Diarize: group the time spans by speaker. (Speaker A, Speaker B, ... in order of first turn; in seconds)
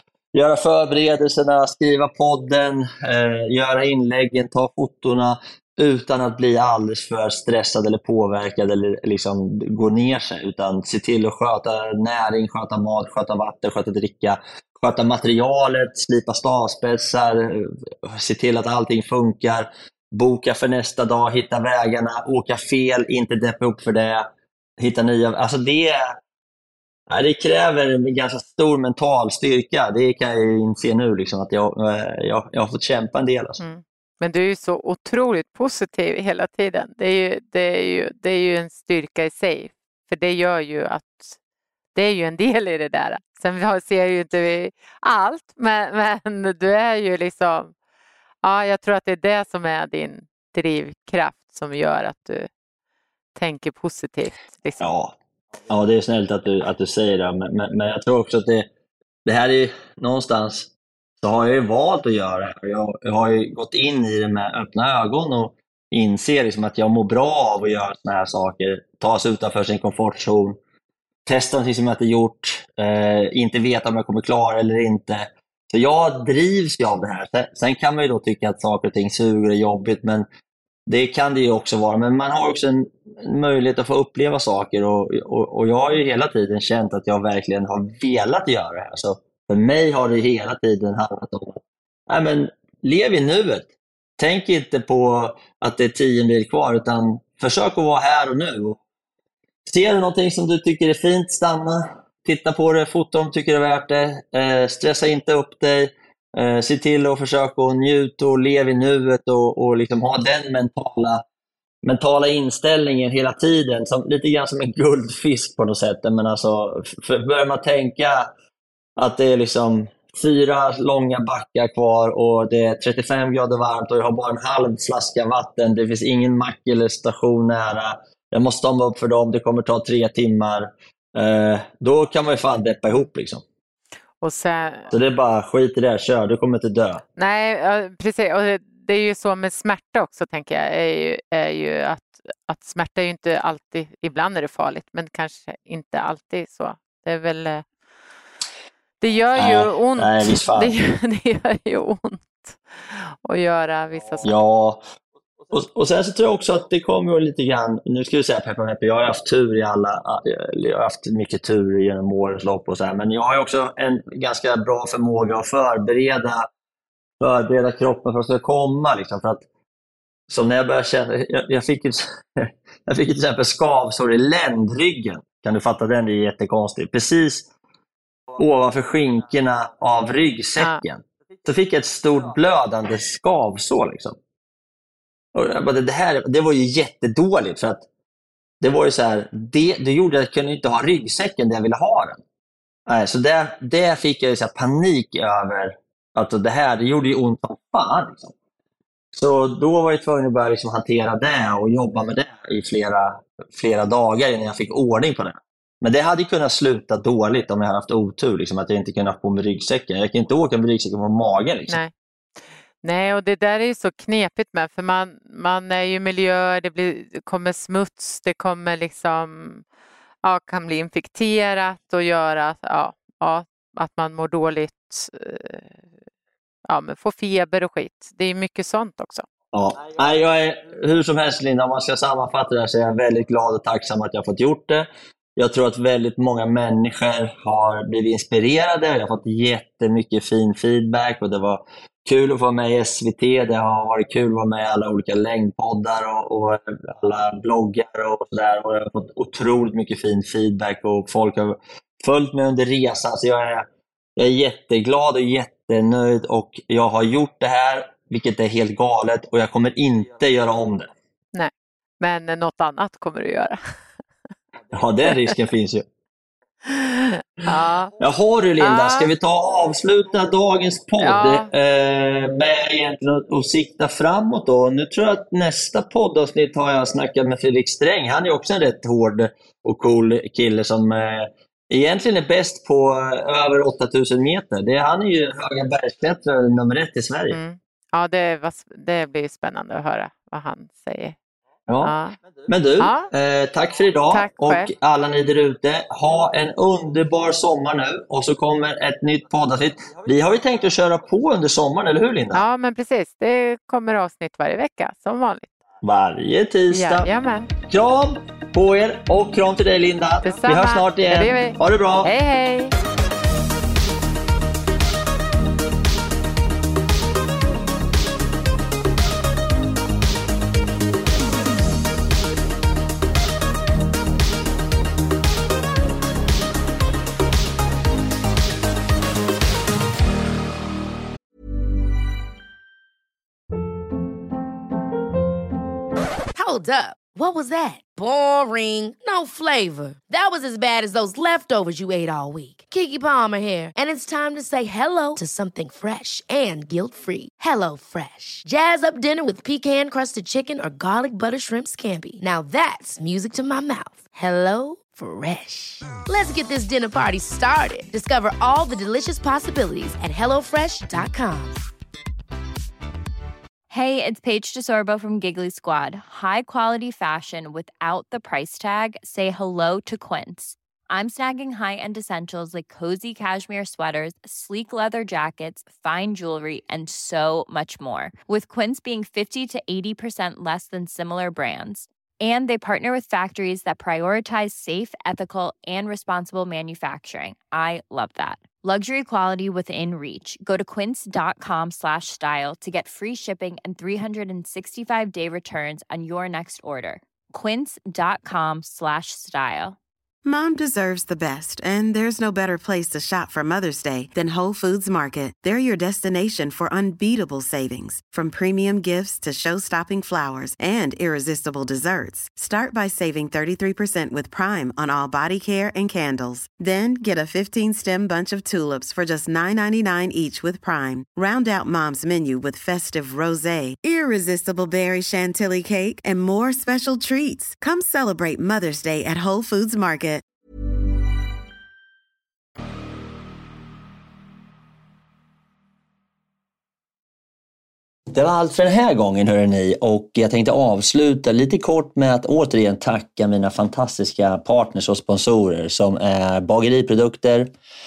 Speaker A: 0.3-26.2, 27.1-33.6, 54.8-55.1, 55.7-58.7, 59.2-60.7, 61.2-70.6, 71.2-80.3, 80.9-98.8, 99.6-111.2, 111.8-118.3, 119.0-133.4, 134.9-137.0, 149.3-150.7, 154.2-154.8, 155.5-166.5, 167.2-169.4, 170.3-177.5, 178.3-184.2, 185.3-187.8, 188.6-192.2, 192.9-198.3, 199.1-211.8, 229.5-253.7, 254.2-260.9, 264.7-265.8, 268.0-287.4, 291.7-291.9, 292.5-302.4, 305.8-307.1, 307.7-312.1, 438.1-447.5
Speaker B: 33.6-41.3, 41.9-47.7, 48.4-52.5, 53.4-54.9, 134.2-134.9, 137.2-147.6, 149.0-154.3, 212.8-219.6, 220.2-225.8, 226.7-229.2, 261.3-263.7, 266.6-267.9, 268.6-269.1, 271.0-271.5, 287.3-291.1, 291.8-292.2, 292.8-293.1, 294.1-294.7, 302.3-305.5, 306.7-307.5, 310.2-312.7
Speaker C: 336.3-361.6
Speaker D: 363.7-399.8
Speaker E: 400.2-430.2